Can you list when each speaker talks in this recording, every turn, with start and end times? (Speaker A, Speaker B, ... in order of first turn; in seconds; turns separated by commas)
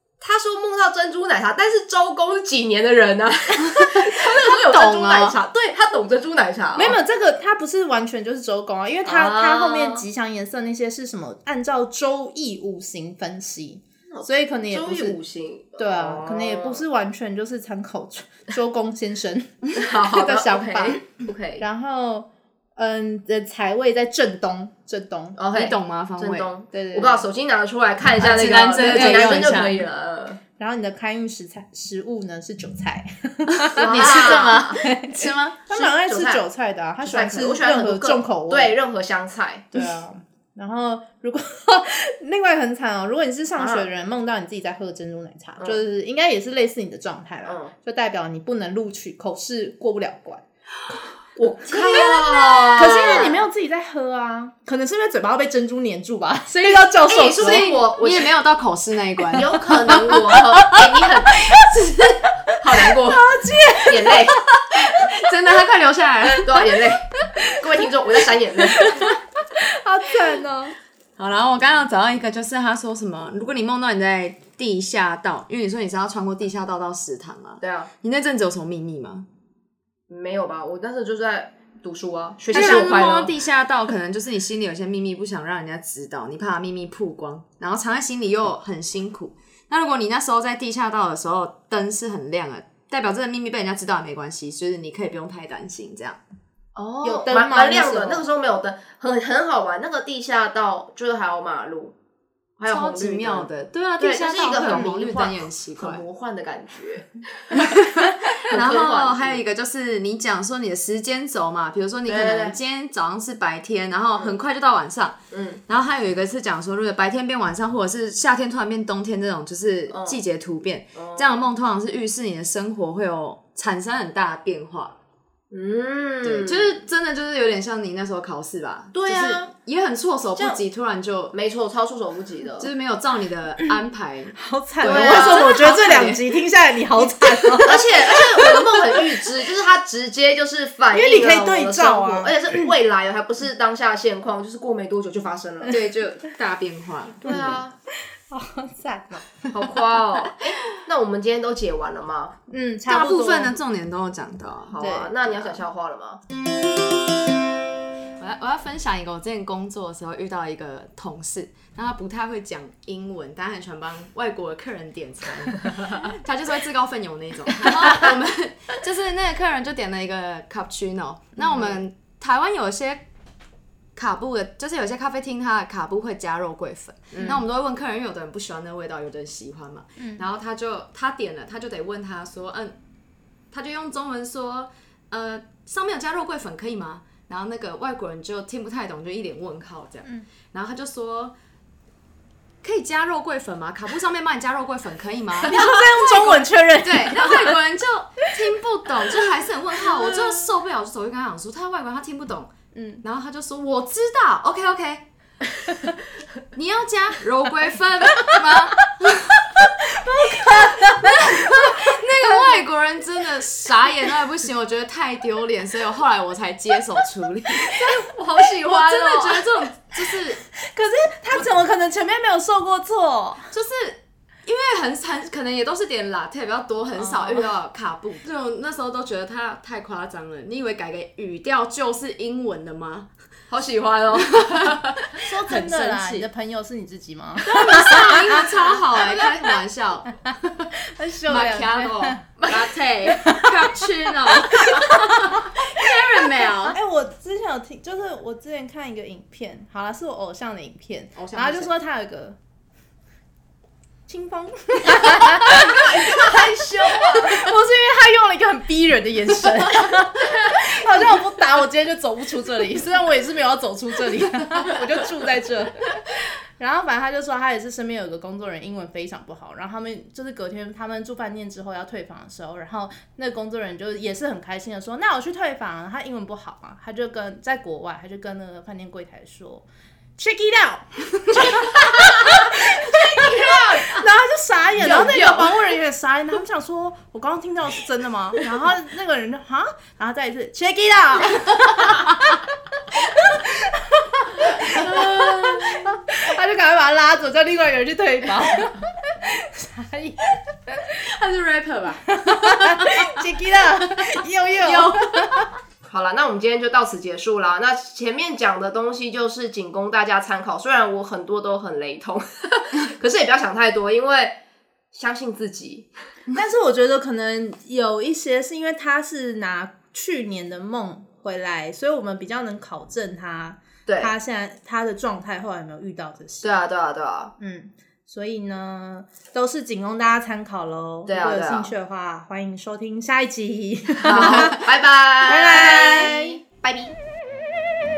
Speaker A: 0.2-7.0, Speaker B: 3.8-5.4, Speaker C: 6.8-15.2, Speaker A: 9.0-10.0, Speaker A: 14.1-16.8, Speaker C: 15.8-21.0, Speaker A: 19.7-21.6, Speaker C: 21.6-25.4, Speaker A: 25.4-30.4, Speaker B: 25.5-26.5, Speaker C: 26.7-27.2, Speaker B: 28.2-29.8, Speaker C: 28.9-29.5, Speaker C: 30.6-38.8, Speaker B: 33.5-35.6, Speaker A: 33.8-34.8, Speaker A: 35.7-36.4, Speaker A: 37.0-39.7, Speaker C: 39.7-50.4, Speaker A: 43.6-43.9, Speaker A: 47.4-47.7, Speaker A: 51.4-53.4, Speaker B: 51.7-53.3, Speaker C: 51.7-52.1, Speaker C: 52.8-57.6, Speaker A: 56.5-58.3, Speaker B: 57.3-59.9, Speaker A: 59.3-62.0, Speaker C: 59.9-62.0, Speaker A: 62.6-63.2, Speaker C: 62.6-65.1, Speaker A: 63.9-64.4, Speaker B: 64.8-66.8, Speaker A: 66.4-69.0, Speaker C: 68.9-70.8, Speaker B: 71.2-79.2, Speaker A: 77.6-77.9, Speaker A: 80.1-83.3, Speaker B: 82.5-96.2, Speaker C: 82.5-82.9, Speaker A: 96.8-101.9, Speaker C: 97.0-98.3, Speaker A: 102.6-103.5, Speaker B: 102.7-106.0, Speaker A: 104.0-107.8, Speaker B: 107.5-124.9, Speaker A: 108.5-109.4, Speaker A: 112.0-112.6, Speaker A: 115.3-115.6, Speaker A: 119.9-120.2, Speaker A: 120.9-121.4, Speaker A: 125.5-126.8, Speaker B: 126.2-131.3, Speaker A: 128.9-129.5, Speaker A: 131.3-132.7, Speaker B: 132.6-136.3, Speaker C: 134.3-139.1, Speaker A: 134.8-135.5, Speaker A: 137.6-145.7, Speaker C: 140.9-142.7, Speaker B: 145.7-147.6, Speaker C: 147.2-147.6, Speaker A: 147.2-147.7, Speaker C: 148.3-149.7, Speaker A: 149.5-152.3, Speaker C: 152.5-153.6, Speaker B: 152.9-154.7, Speaker A: 154.6-156.2, Speaker C: 154.8-155.6, Speaker B: 158.2-173.0, Speaker A: 171.4-171.8, Speaker B: 173.9-182.8, Speaker A: 177.1-177.4, Speaker C: 180.0-180.2, Speaker B: 183.5-191.3, Speaker B: 192.6-205.1, Speaker C: 195.4-197.6, Speaker C: 199.8-200.4, Speaker C: 202.7-203.0, Speaker B: 206.5-209.6, Speaker C: 209.6-212.4, Speaker B: 210.3-218.1, Speaker A: 217.8-219.4, Speaker B: 218.6-220.4, Speaker C: 220.6-223.5, Speaker B: 223.5-233.1, Speaker C: 226.9-227.5, Speaker A: 233.5-234.8, Speaker B: 234.2-236.2, Speaker C: 235.2-239.2, Speaker B: 237.4-240.7, Speaker C: 240.8-252.4, Speaker B: 241.2-246.8, Speaker B: 251.2-251.7, Speaker C: 254.1-279.6, Speaker A: 255.5-257.5, Speaker C: 280.2-300.9, Speaker A: 281.8-284.1, Speaker A: 284.8-285.6, Speaker B: 294.6-296.0, Speaker B: 301.0-305.5, Speaker C: 302.1-305.5, Speaker A: 305.9-314.4, Speaker A: 314.9-315.9, Speaker C: 316.3-326.5, Speaker A: 323.9-324.1, Speaker A: 326.4-327.3, Speaker C: 327.4-334.6, Speaker A: 331.1-331.7, Speaker A: 334.0-336.9, Speaker C: 335.2-336.4